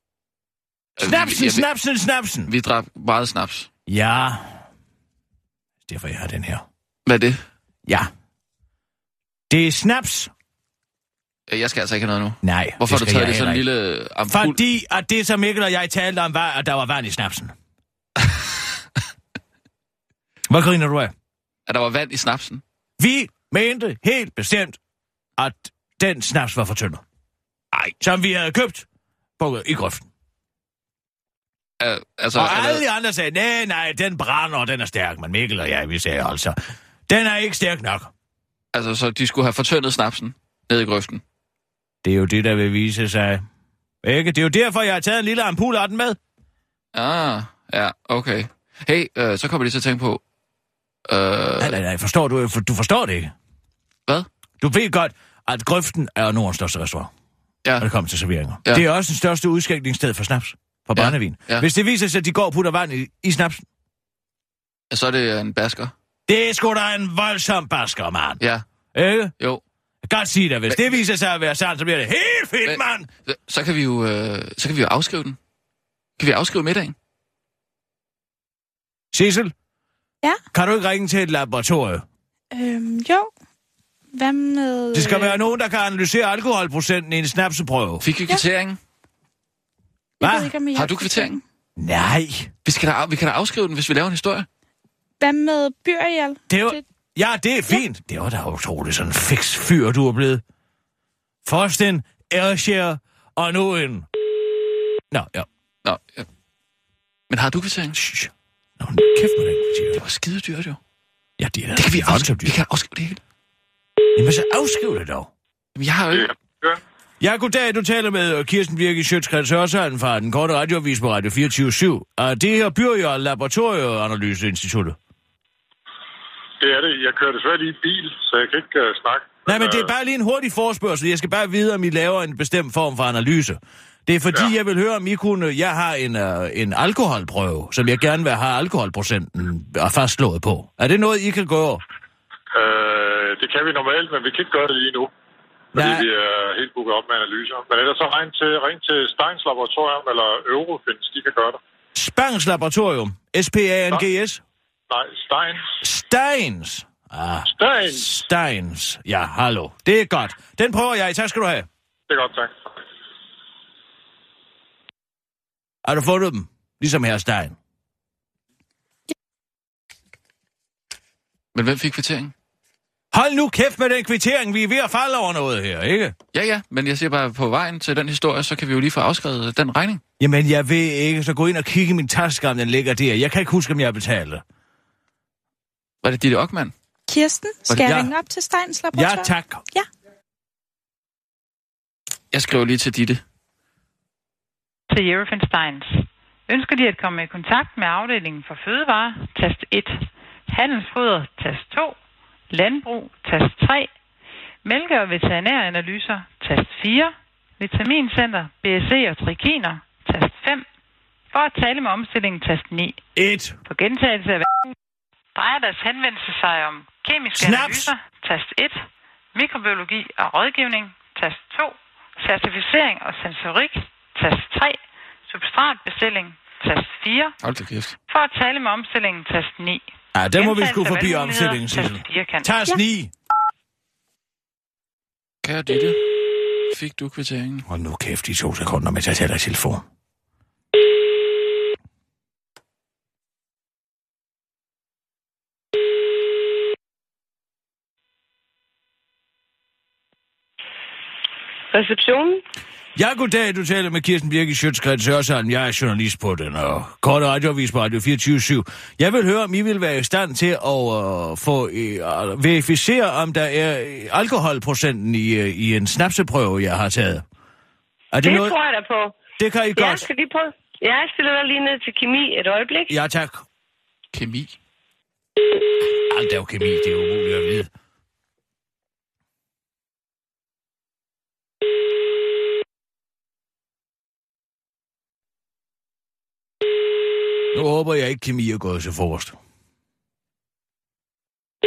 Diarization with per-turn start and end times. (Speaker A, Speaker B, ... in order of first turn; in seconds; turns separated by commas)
Speaker A: 1.0-1.6, Speaker B: 1.0-2.5, Speaker A: 2.5-3.7, Speaker B: 3.9-4.6, Speaker B: 5.9-6.6, Speaker A: 7.0-7.4, Speaker B: 9.5-10.3, Speaker A: 11.5-14.6, Speaker B: 12.4-13.6, Speaker B: 14.3-17.5, Speaker B: 20.5-21.1, Speaker A: 21.7-22.6, Speaker B: 23.0-24.8, Speaker B: 25.4-27.0, Speaker B: 28.0-28.8, Speaker B: 29.4-30.1, Speaker A: 31.8-32.8, Speaker B: 32.3-36.5, Speaker B: 37.1-38.1, Speaker A: 38.7-41.2, Speaker B: 42.0-43.4, Speaker B: 44.0-46.2, Speaker A: 46.9-50.2, Speaker A: 51.1-51.8, Speaker B: 51.6-53.3, Speaker B: 54.6-57.1, Speaker B: 57.8-63.6, Speaker A: 60.9-61.6, Speaker A: 64.9-65.9, Speaker B: 66.3-68.4, Speaker B: 68.9-69.3, Speaker B: 70.0-73.1, Speaker A: 72.6-75.4, Speaker A: 76.2-77.0, Speaker B: 79.1-79.5, Speaker B: 80.5-82.0, Speaker C: 82.5-83.3, Speaker C: 84.1-85.5, Speaker B: 84.9-88.0, Speaker A: 88.0-88.8, Speaker B: 90.2-90.5, Speaker C: 90.2-91.4, Speaker A: 90.7-91.4, Speaker B: 91.8-92.5, Speaker A: 92.6-94.5, Speaker C: 95.2-96.8, Speaker B: 96.5-100.4, Speaker B: 101.4-104.0, Speaker B: 105.1-105.5, Speaker A: 105.8-106.3, Speaker A: 107.3-108.0, Speaker B: 107.9-110.0, Speaker A: 109.9-110.8, Speaker B: 111.4-112.5, Speaker A: 111.8-113.2, Speaker B: 114.1-115.3, Speaker A: 115.8-116.3, Speaker D: 116.1-116.8, Speaker B: 117.2-125.0, Speaker D: 126.6-129.9, Speaker B: 129.4-141.8, Speaker D: 142.5-145.1, Speaker B: 145.7-146.1, Speaker D: 145.7-151.6, Speaker B: 151.9-154.4, Speaker D: 154.9-155.6, Speaker B: 155.8-161.7, Speaker D: 157.5-158.2, Speaker D: 162.1-162.5, Speaker B: 165.8-167.6, Speaker A: 171.5-172.3, Speaker B: 173.1-176.1, Speaker A: 176.3-180.0, Speaker B: 180.2-184.4, Speaker A: 186.0-186.7, Speaker C: 187.1-189.9, Speaker B: 187.8-188.1, Speaker B: 188.9-189.6, Speaker A: 192.3-193.2, Speaker E: 194.9-201.9, Speaker E: 202.5-203.9, Speaker E: 204.6-210.6, Speaker E: 211.3-213.0, Speaker B: 213.2-213.6, Speaker E: 213.7-214.5, Speaker E: 215.3-218.8, Speaker B: 217.3-217.9, Speaker E: 219.3-224.8, Speaker E: 225.3-227.3, Speaker A: 227.4-227.9, Speaker E: 228.1-229.8, Speaker B: 230.1-233.1, Speaker E: 230.4-232.5, Speaker A: 235.4-236.0, Speaker A: 236.7-237.7, Speaker B: 237.7-239.8, Speaker F: 251.7-252.4, Speaker B: 252.9-267.2, Speaker B: 268.1-268.6, Speaker F: 268.2-269.2, Speaker B: 269.4-270.1, Speaker F: 269.7-272.9, Speaker B: 272.9-273.4, Speaker A: 274.1-274.6, Speaker B: 276.1-277.7, Speaker B: 287.5-289.4